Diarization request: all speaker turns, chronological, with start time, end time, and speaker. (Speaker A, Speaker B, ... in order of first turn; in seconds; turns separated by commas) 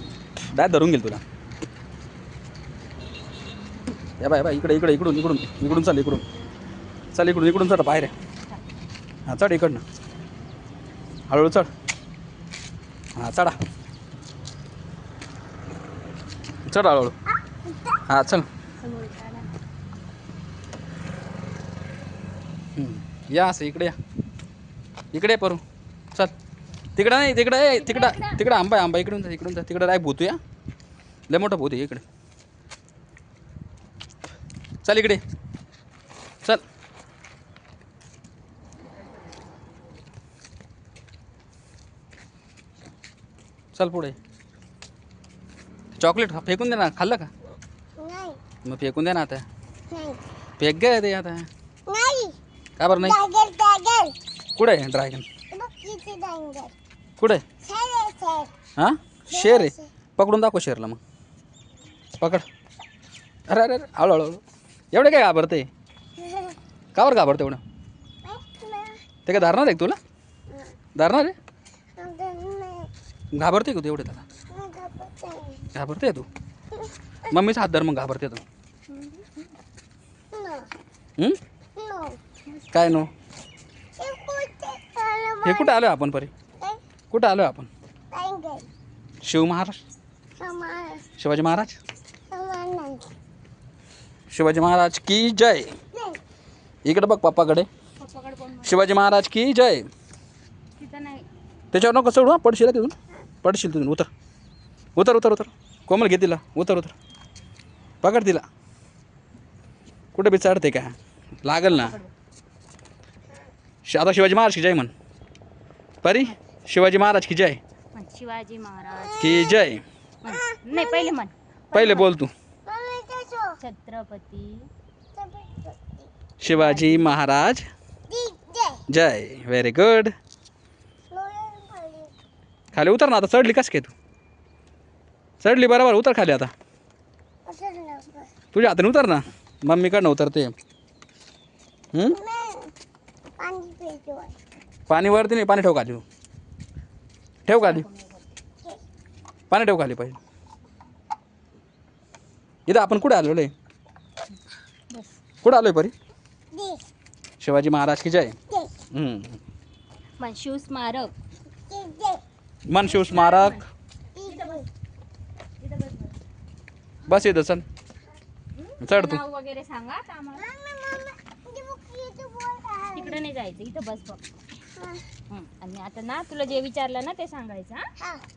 Speaker A: 0.5-1.2, Speaker A: 4.2-6.2, Speaker A: 7.1-8.1, Speaker A: 9.3-9.8, Speaker A: 11.3-11.7, Speaker A: 13.2-13.6, Speaker A: 16.6-17.1, Speaker B: 17.7-18.0, Speaker A: 18.1-18.5, Speaker C: 18.8-19.5, Speaker A: 22.8-24.0, Speaker A: 25.1-25.6, Speaker A: 27.0-30.4, Speaker C: 27.8-28.4, Speaker A: 31.3-32.0, Speaker A: 34.8-35.2, Speaker A: 43.8-44.2, Speaker A: 46.0-47.3, Speaker B: 48.0-48.4, Speaker A: 48.6-49.4, Speaker B: 49.9-50.2, Speaker A: 50.6-51.5, Speaker B: 51.9-52.4, Speaker A: 52.8-53.2, Speaker B: 53.0-54.1, Speaker A: 54.6-55.3, Speaker B: 55.5-56.7, Speaker B: 57.6-58.5, Speaker A: 58.8-61.0, Speaker B: 59.3-59.9, Speaker A: 62.2-62.5, Speaker A: 63.5-64.4, Speaker A: 64.9-65.7, Speaker B: 66.2-66.6, Speaker A: 67.0-67.6, Speaker B: 68.2-69.1, Speaker A: 69.3-70.0, Speaker B: 70.5-70.8, Speaker A: 71.0-71.4, Speaker B: 72.0-72.9, Speaker A: 73.3-74.2, Speaker B: 74.5-75.7, Speaker A: 75.8-76.3, Speaker A: 77.3-78.4, Speaker C: 78.9-79.3, Speaker B: 80.3-80.7, Speaker B: 81.8-82.2, Speaker A: 82.7-83.1, Speaker B: 84.0-85.8, Speaker A: 85.4-86.3, Speaker A: 87.1-87.7, Speaker B: 88.1-88.7, Speaker A: 89.2-89.8, Speaker B: 90.4-91.1, Speaker A: 91.2-91.8, Speaker B: 92.3-93.0, Speaker A: 94.3-95.8, Speaker B: 95.9-96.2, Speaker A: 96.8-97.7, Speaker C: 98.0-98.8, Speaker A: 98.6-99.9, Speaker C: 100.8-101.3, Speaker A: 101.7-104.1, Speaker A: 105.0-106.9, Speaker A: 108.0-108.4, Speaker A: 110.2-112.0, Speaker C: 111.7-112.1, Speaker A: 113.9-114.9, Speaker A: 116.0-117.6, Speaker C: 118.0-119.5, Speaker B: 119.0-119.5, Speaker A: 119.2-119.8, Speaker C: 120.2-122.1, Speaker B: 120.3-121.2, Speaker A: 121.7-122.3, Speaker B: 122.7-123.6, Speaker C: 123.6-124.7, Speaker B: 125.2-126.1, Speaker A: 126.4-127.7, Speaker C: 126.5-127.2, Speaker B: 128.1-128.8, Speaker A: 128.9-130.1, Speaker B: 131.1-132.1, Speaker A: 132.7-133.9, Speaker A: 135.4-136.5, Speaker B: 137.5-138.3, Speaker A: 138.5-140.6, Speaker A: 141.9-142.2, Speaker B: 142.1-142.7, Speaker B: 143.4-144.3, Speaker A: 144.9-146.0, Speaker A: 147.5-147.8, Speaker C: 147.6-148.2, Speaker A: 149.5-150.2, Speaker A: 152.7-153.5, Speaker C: 154.9-155.2, Speaker A: 155.4-155.9, Speaker B: 156.5-156.8, Speaker A: 157.4-158.4, Speaker A: 158.9-159.4, Speaker C: 160.2-161.1, Speaker B: 161.7-162.2, Speaker A: 162.7-163.6, Speaker C: 162.8-163.7, Speaker B: 164.2-164.7, Speaker C: 164.3-164.7, Speaker C: 165.6-166.1, Speaker A: 167.1-167.7, Speaker C: 168.6-170.5, Speaker A: 168.8-169.2, Speaker B: 170.3-173.2, Speaker C: 172.9-174.2, Speaker B: 174.8-175.0, Speaker C: 175.3-177.9, Speaker B: 178.0-178.2